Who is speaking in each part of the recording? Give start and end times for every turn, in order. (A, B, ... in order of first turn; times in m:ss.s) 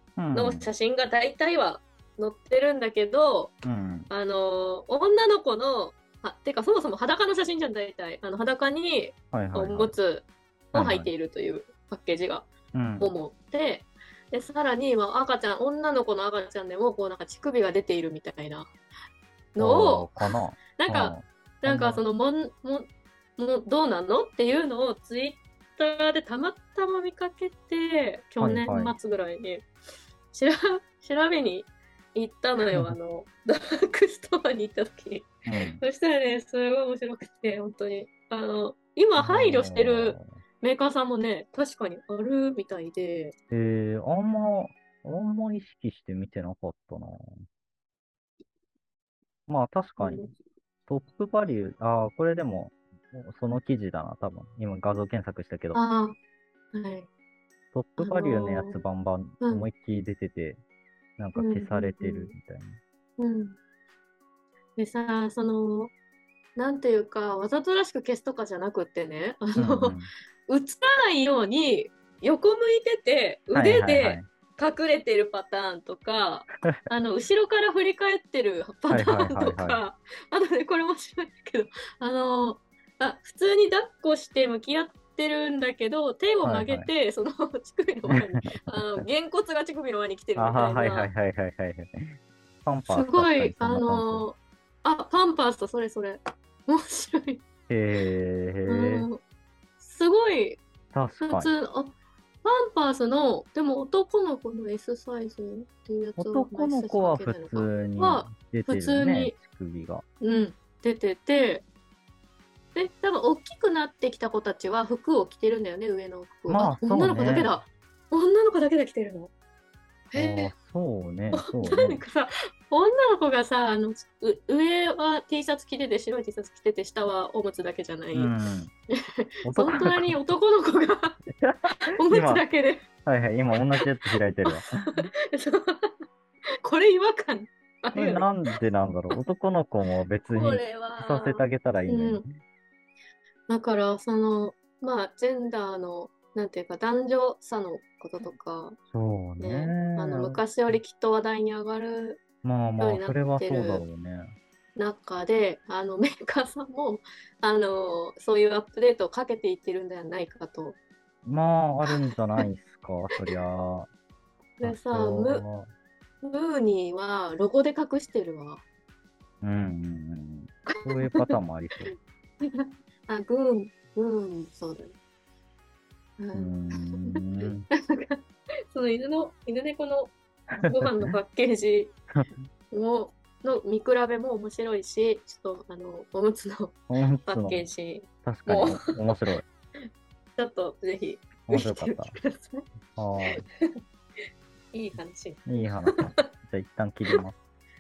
0:00.2-0:00.7 A
0:00.3-0:03.5 B
0:03.6-0:04.1 A
0:04.1-0:18.7 B
0:09.3-0:09.9 A
0:10.7-0:11.1 A
0:12.7-0:13.1 A
0:19.5-0:20.2 B
0:19.6-0:22.0 A
0:20.8-0:29.7 B
0:28.4-0:28.9 A
0:30.3-0:43.3 B
0:35.4-0:35.8 A
0:39.2-0:40.2 A
0:43.5-0:47.3 A
0:49.5-0:50.3 A
0:50.0-0:50.3 B
0:50.9-0:55.8 A
0:55.7-0:56.2 B
0:56.7-0:57.1 B
0:57.7-1:00.6 A
0:58.0-0:58.8 B
0:59.4-0:59.6 B
1:01.2-1:02.8 A
1:01.4-1:02.3 B
1:03.2-1:03.6 B
1:04.8-1:05.9 B
1:06.6-1:09.9 B
1:09.6-1:10.1 A
1:10.5-1:31.1 B
1:13.5-1:14.3 A
1:18.9-1:19.8 A
1:26.4-1:26.9 A
1:30.3-1:31.9 A
1:32.6-1:34.3 A
1:32.9-1:37.4 B
1:37.7-1:39.1 A
1:38.7-1:39.2 B
1:39.8-1:40.6 B
1:40.9-1:41.5 A
1:41.2-1:49.3 B
1:46.2-1:50.0 A
1:50.2-1:51.6 B
1:52.7-1:59.3 B
1:56.5-1:57.5 A
2:00.1-2:00.5 B
2:00.1-2:02.0 A
2:01.3-2:08.3 B
2:08.1-2:08.7 A
2:09.2-2:11.2 B
2:09.4-2:10.2 A
2:11.4-2:12.4 A
2:11.9-2:12.8 B
2:13.0-2:14.7 A
2:14.4-2:14.7 B
2:15.3-2:15.9 B
2:16.6-2:18.3 B
2:17.9-2:22.3 A
2:20.3-2:22.2 B
2:23.5-2:28.8 B
2:28.9-2:30.4 A
2:29.4-2:32.2 B
2:32.4-2:34.3 A
2:32.8-2:33.8 B
2:34.8-2:40.8 B
2:41.2-2:43.9 A
2:41.9-2:42.4 B
2:44.6-2:45.4 B
2:44.6-2:45.7 A
2:46.2-2:48.6 B
2:49.4-2:51.9 A
2:50.7-2:51.3 B
2:52.4-2:54.9 B
2:56.2-2:58.2 B
2:56.3-2:57.6 A
2:58.7-3:01.9 B
3:00.6-3:01.1 A
3:02.7-3:09.1 B
3:06.9-3:07.7 A
3:08.2-3:09.4 A
3:10.4-3:12.6 B
3:11.5-3:12.2 A
3:13.0-3:13.4 A
3:13.4-3:13.7 B
3:14.7-3:16.2 B
3:15.4-3:17.4 A